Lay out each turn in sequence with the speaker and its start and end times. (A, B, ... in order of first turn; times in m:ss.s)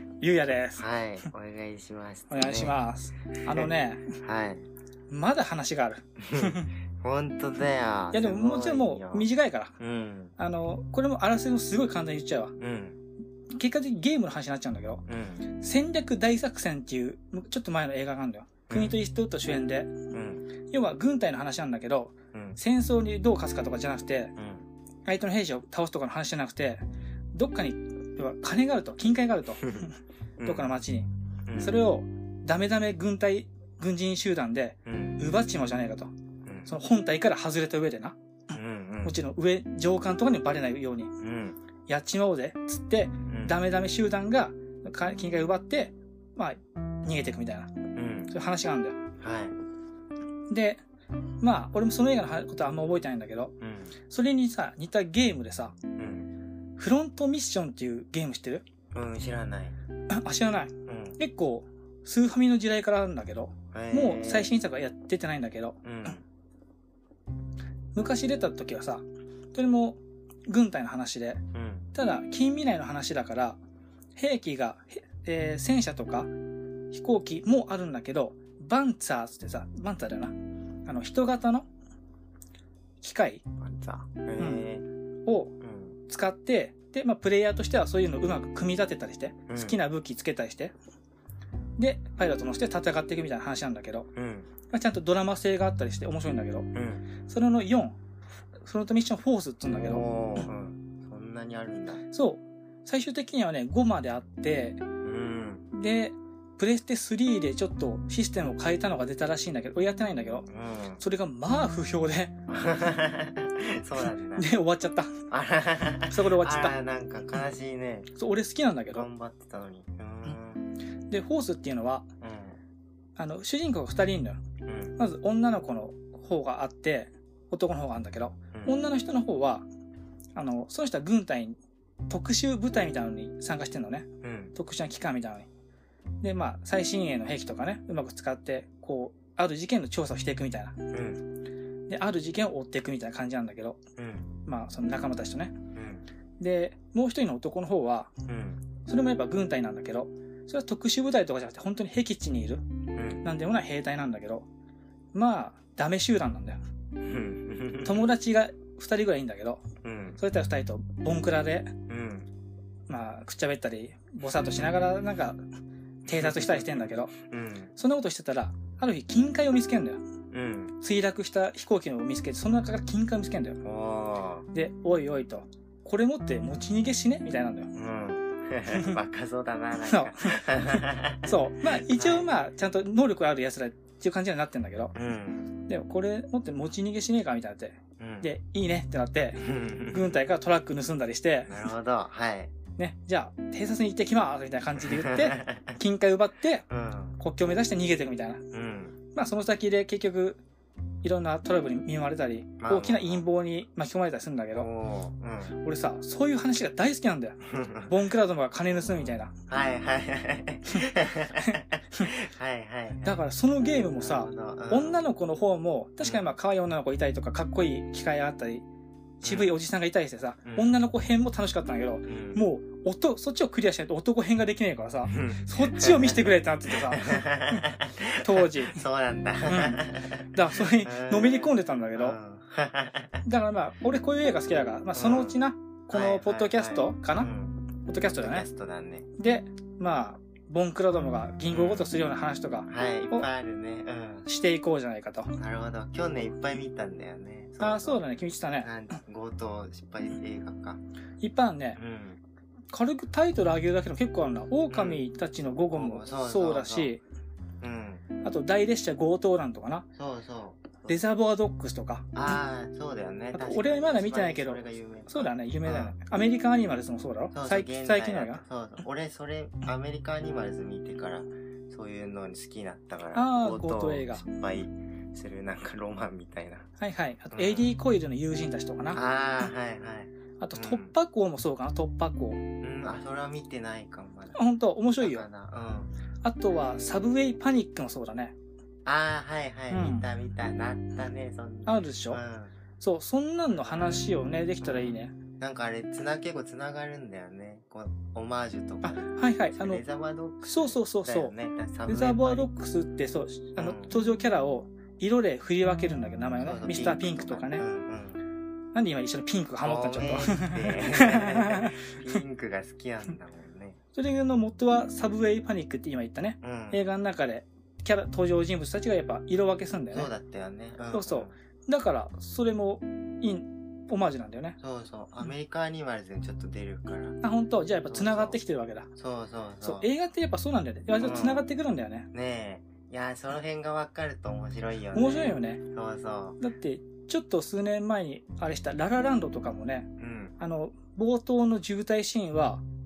0:00.2-0:00.8 A
0:00.8-0:02.8 B
0:02.3-0:04.1 A
0:03.4-0:03.7 B
0:04.2-0:04.7 B
0:05.1-0:06.7 A
0:06.2-0:09.3 B
0:08.1-0:09.7 A
0:09.8-0:10.3 B
0:10.4-0:12.5 A
0:12.6-0:13.0 B
0:13.5-0:19.9 A
0:15.1-0:15.5 B
0:18.7-0:19.0 B
0:20.1-0:20.5 B
0:20.7-0:24.3 A
0:24.4-0:24.6 B
0:25.0-0:26.8 A
0:27.3-0:29.9 A
0:30.4-0:30.7 B
0:30.4-0:36.1 A
0:31.5-0:31.8 B
0:34.8-0:35.2 B
0:36.4-0:36.7 B
0:36.6-0:38.2 A
0:38.5-0:39.2 B
0:39.0-0:41.1 A
0:41.2-0:41.6 B
0:41.9-0:47.8 A
0:43.3-0:43.6 B
0:47.9-0:48.3 B
0:48.3-0:49.0 A
0:49.2-0:49.5 B
0:50.5-0:50.8 A
0:51.4-0:53.5 A
0:53.6-0:54.0 B
0:54.1-0:55.8 A
0:56.0-0:56.3 B
0:56.8-0:58.6 A
0:58.9-0:59.8 B
1:00.1-1:06.2 A
1:00.9-1:01.2 B
1:03.7-1:04.5 B
1:05.8-1:06.2 B
1:07.9-1:11.4 A
1:11.5-1:11.9 B
1:11.9-1:13.6 A
1:14.2-1:16.3 A
1:16.9-1:20.3 A
1:20.8-1:21.6 A
1:23.0-1:23.4 A
1:23.6-1:24.8 B
1:24.4-1:24.6 A
1:25.2-1:25.5 A
1:25.6-1:26.0 B
1:26.1-1:30.7 A
1:29.5-1:29.8 B
1:31.8-1:34.1 A
1:34.2-1:34.5 B
1:34.7-1:36.7 A
1:36.7-1:37.0 B
1:37.2-1:38.0 A
1:38.6-1:40.5 A
1:39.7-1:42.0 B
1:42.1-1:44.8 A
1:45.0-1:45.6 B
1:45.7-1:50.5 A
1:50.5-1:51.0 B
1:51.0-1:52.3 A
1:52.5-1:54.5 B
1:54.3-1:55.1 A
1:55.3-1:58.1 B
1:56.0-1:56.7 A
1:58.1-1:59.1 A
1:58.9-2:00.7 B
2:01.1-2:02.0 A
2:02.2-2:02.6 B
2:03.2-2:04.4 A
2:04.6-2:05.0 B
2:05.0-2:09.6 A
2:08.5-2:08.8 B
2:10.3-2:11.6 A
2:12.1-2:15.5 A
2:14.2-2:14.5 B
2:16.2-2:20.9 A
2:20.9-2:21.2 B
2:21.9-2:23.8 A
2:24.0-2:24.4 B
2:24.4-2:25.6 A
2:25.7-2:26.1 B
2:26.4-2:28.1 A
2:28.3-2:28.6 B
2:28.8-2:32.6 A
2:32.9-2:33.2 B
2:33.2-2:34.4 A
2:35.1-2:36.6 A
2:37.0-2:38.1 B
2:37.8-2:39.6 A
2:39.8-2:40.2 B
2:40.2-2:41.7 A
2:41.9-2:42.3 B
2:42.9-2:45.4 A
2:46.0-2:47.7 B
2:46.1-2:47.1 A
2:47.8-2:50.0 A
2:50.3-2:50.7 B
2:50.8-2:53.6 A
2:53.6-2:54.5 B
2:54.5-2:57.7 A
2:57.7-3:02.3 B
2:58.7-2:59.0 A
2:59.9-3:04.9 A
3:04.9-3:05.5 B
3:05.7-3:11.6 A
3:08.0-3:08.3 B
3:09.4-3:10.2 B
3:11.5-3:12.5 B
3:12.8-3:16.6 A
3:14.8-3:15.8 B
3:16.7-3:17.2 B
3:17.2-3:18.4 A
3:18.5-3:19.0 B
3:19.1-3:20.4 A
3:21.0-3:24.7 A
3:22.6-3:23.2 B
3:24.5-3:25.6 B
3:25.6-3:29.3 A
3:27.5-3:27.9 B
3:28.7-3:33.2 B
3:31.4-3:32.1 A
3:33.0-3:38.6 A
3:34.0-3:35.0 B
3:36.0-3:36.3 B
3:39.2-3:47.6 A
3:39.2-3:39.6 B
3:40.4-3:40.8 B
3:42.0-3:42.4 B
3:45.1-3:53.2 B
3:48.2-3:48.8 A
3:49.5-3:52.2 A
3:53.2-3:57.3 A
3:54.9-3:55.4 B
3:55.9-3:59.1 B
3:57.8-3:58.4 A
3:59.2-4:03.3 A
4:01.5-4:01.9 B
4:02.7-4:04.3 B
4:04.2-4:05.3 A
4:05.4-4:08.0 B
4:07.6-4:08.7 A
4:08.6-4:10.8 B
4:11.2-4:11.8 A
4:11.8-4:12.2 B
4:12.7-4:17.0 A
4:14.7-4:16.9 B
4:17.6-4:18.0 B
4:18.2-4:19.8 A
4:19.9-4:21.0 B
4:20.9-4:22.1 A
4:22.1-4:26.0 B
4:23.3-4:28.4 A
4:27.3-4:36.7 B
4:33.1-4:34.2 A
4:36.8-4:39.0 A
4:37.3-4:37.7 B
4:38.9-4:40.9 B
4:40.4-4:42.4 A
4:42.6-4:44.4 B
4:44.3-4:45.3 A
4:45.0-4:45.9 B
4:46.2-4:48.3 A
4:46.5-4:47.4 B
4:48.8-4:52.5 B
4:49.7-4:50.1 A
4:51.6-4:52.2 A
4:52.8-4:55.1 A
4:53.5-4:54.0 B
4:54.6-5:02.5 B
4:58.8-4:59.8 A
5:00.4-5:01.3 A
5:01.9-5:07.6 A
5:03.6-5:03.9 B
5:06.4-5:08.2 B
5:08.7-5:11.8 A
5:09.6-5:13.8 B
5:13.9-5:20.1 A
5:16.4-5:16.8 B
5:19.9-5:21.3 B
5:20.9-5:24.6 A
5:24.6-5:27.2 B
5:27.2-5:28.9 A
5:27.9-5:28.4 B
5:29.0-5:29.9 B
5:29.6-5:32.1 A
5:31.0-5:31.4 B
5:32.1-5:36.4 B
5:34.9-5:35.6 A
5:36.4-5:42.6 A
5:40.0-5:40.3 B